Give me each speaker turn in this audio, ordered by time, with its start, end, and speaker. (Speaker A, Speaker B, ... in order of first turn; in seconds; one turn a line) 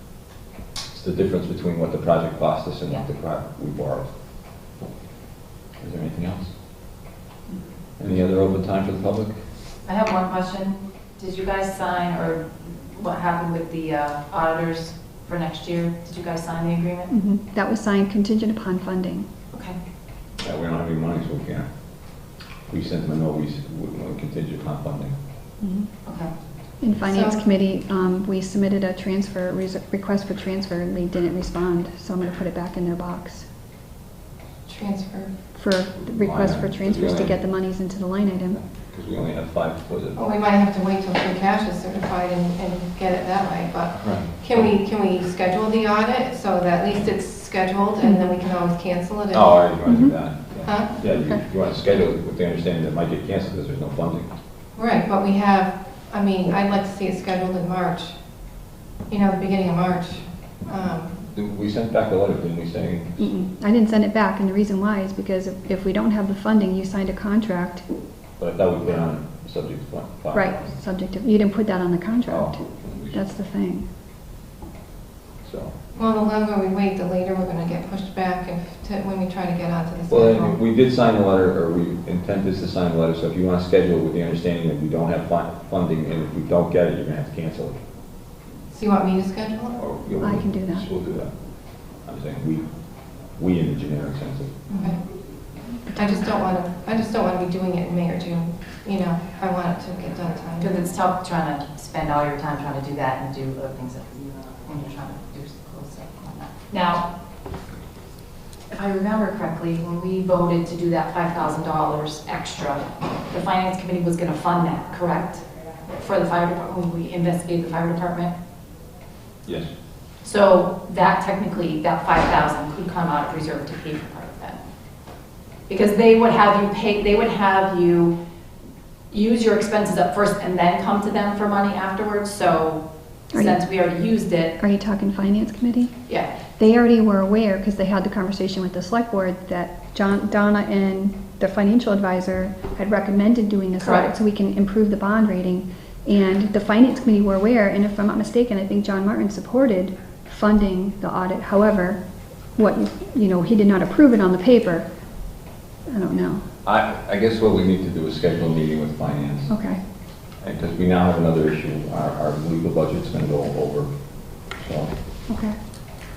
Speaker A: 0.9-4.1
Speaker A: 5.8-6.5
Speaker A: 8.0-9.3
Speaker B: 9.8-17.1
Speaker C: 17.1-19.3
Speaker A: 20.4-21.7
Speaker A: 22.7-25.1
Speaker C: 25.6-25.9
Speaker B: 26.0-26.3
Speaker C: 26.8-33.5
Speaker D: 27.1-27.4
Speaker D: 34.7-35.3
Speaker C: 35.5-38.6
Speaker A: 36.0-37.4
Speaker A: 38.5-40.2
Speaker D: 40.1-49.5
Speaker A: 43.9-44.7
Speaker C: 48.0-48.3
Speaker A: 49.3-54.3
Speaker C: 49.9-50.1
Speaker D: 50.6-51.0
Speaker C: 51.1-51.4
Speaker D: 54.7-58.1
Speaker D: 59.1-61.2
Speaker A: 61.3-63.3
Speaker C: 63.2-67.8
Speaker A: 68.4-70.7
Speaker C: 70.3-73.8
Speaker A: 72.3-73.2
Speaker A: 75.4-75.7
Speaker D: 75.9-80.6
Speaker A: 80.1-87.8
Speaker D: 88.7-89.8
Speaker A: 89.8-91.3
Speaker C: 90.2-90.9
Speaker A: 91.9-92.6
Speaker A: 93.3-94.5
Speaker D: 94.7-95.0
Speaker D: 95.9-100.8
Speaker B: 100.6-107.1
Speaker B: 108.7-118.3
Speaker A: 119.4-119.7
Speaker B: 120.2-124.6
Speaker B: 125.7-128.2
Speaker B: 129.1-134.5
Speaker C: 133.3-133.6
Speaker C: 134.6-135.9
Speaker B: 136.1-136.3
Speaker C: 136.6-152.0
Speaker B: 143.8-144.1
Speaker C: 152.6-154.9
Speaker C: 155.9-156.4
Speaker A: 156.7-159.6
Speaker C: 159.5-159.8
Speaker A: 160.4-163.9
Speaker A: 164.4-164.9
Speaker C: 165.3-165.6